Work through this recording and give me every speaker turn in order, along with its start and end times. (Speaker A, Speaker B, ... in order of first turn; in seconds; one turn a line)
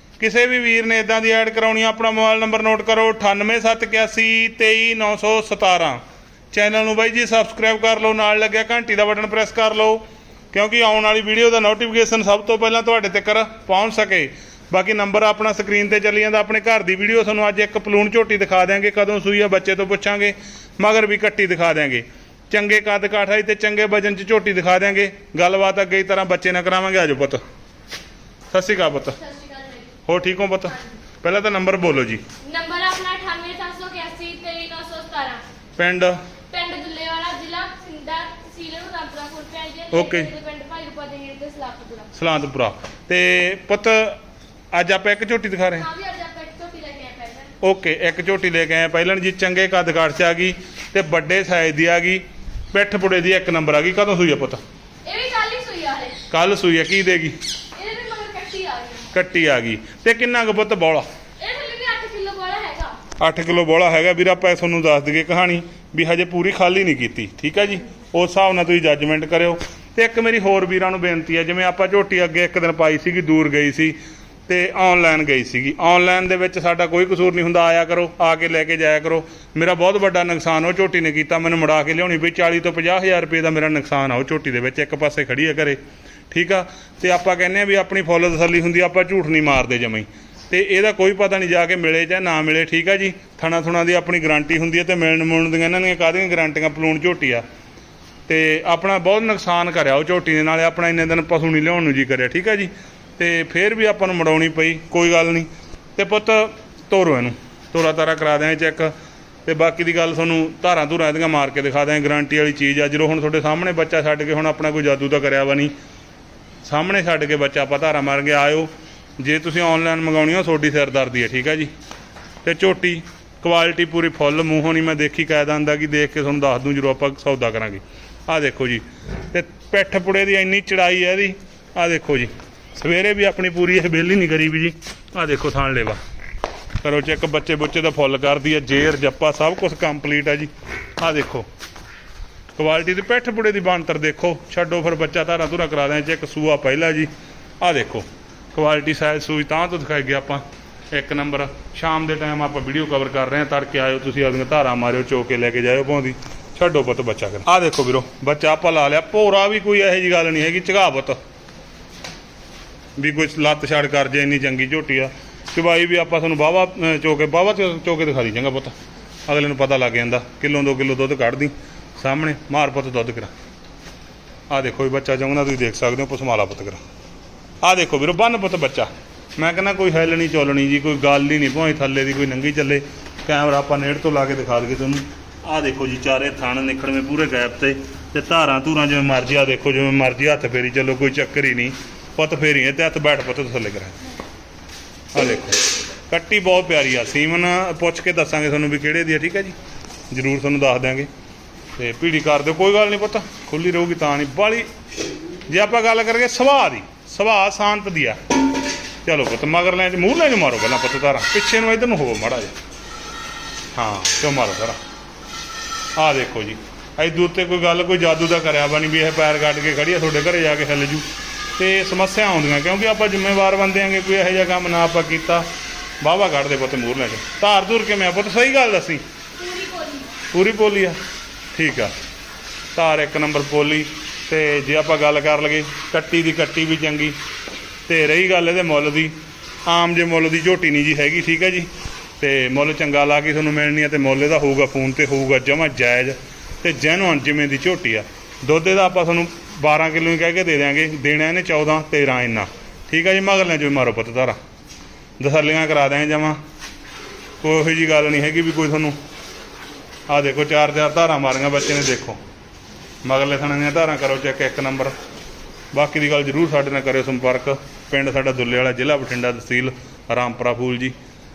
Speaker A: 0.2-6.0
Speaker A: 6.5-27.4
Speaker A: 28.5-29.2
Speaker B: 29.2-30.0
Speaker A: 30.0-32.2
Speaker B: 32.4-35.4
Speaker A: 35.8-36.2
Speaker B: 36.5-42.1
Speaker A: 39.9-40.3
Speaker A: 42.1-44.2
Speaker A: 44.7-45.9
Speaker B: 45.8-47.5
Speaker A: 47.6-54.6
Speaker B: 55.0-56.2
Speaker A: 56.3-57.4
Speaker B: 57.8-59.1
Speaker A: 59.1-61.0
Speaker B: 61.4-63.0
Speaker A: 63.1-74.0
Speaker A: 74.5-85.8
Speaker A: 86.3-97.4
Speaker A: 98.3-108.9
Speaker A: 109.5-115.7
Speaker A: 116.6-121.7
Speaker A: 122.4-136.0
Speaker A: 136.8-141.5
Speaker A: 142.5-147.1
Speaker A: 147.6-161.2
Speaker A: 163.0-168.7
Speaker A: 169.3-173.3
Speaker A: 174.5-176.8
Speaker A: 177.6-194.0
Speaker A: 195.1-199.5
Speaker A: 200.1-201.1
Speaker A: 201.8-204.7
Speaker A: 205.5-208.2
Speaker A: 209.0-212.5
Speaker A: 213.7-214.8
Speaker A: 215.9-221.1
Speaker A: 221.6-225.5
Speaker A: 226.0-229.0
Speaker B: 229.3-230.2
Speaker A: 230.3-231.0
Speaker A: 231.5-231.9
Speaker A: 232.7-237.2
Speaker A: 237.9-239.1
Speaker A: 239.7-241.7
Speaker A: 242.2-254.3
Speaker A: 255.2-256.4
Speaker A: 257.4-259.0
Speaker A: 260.1-262.2
Speaker A: 263.0-264.9
Speaker A: 265.7-270.9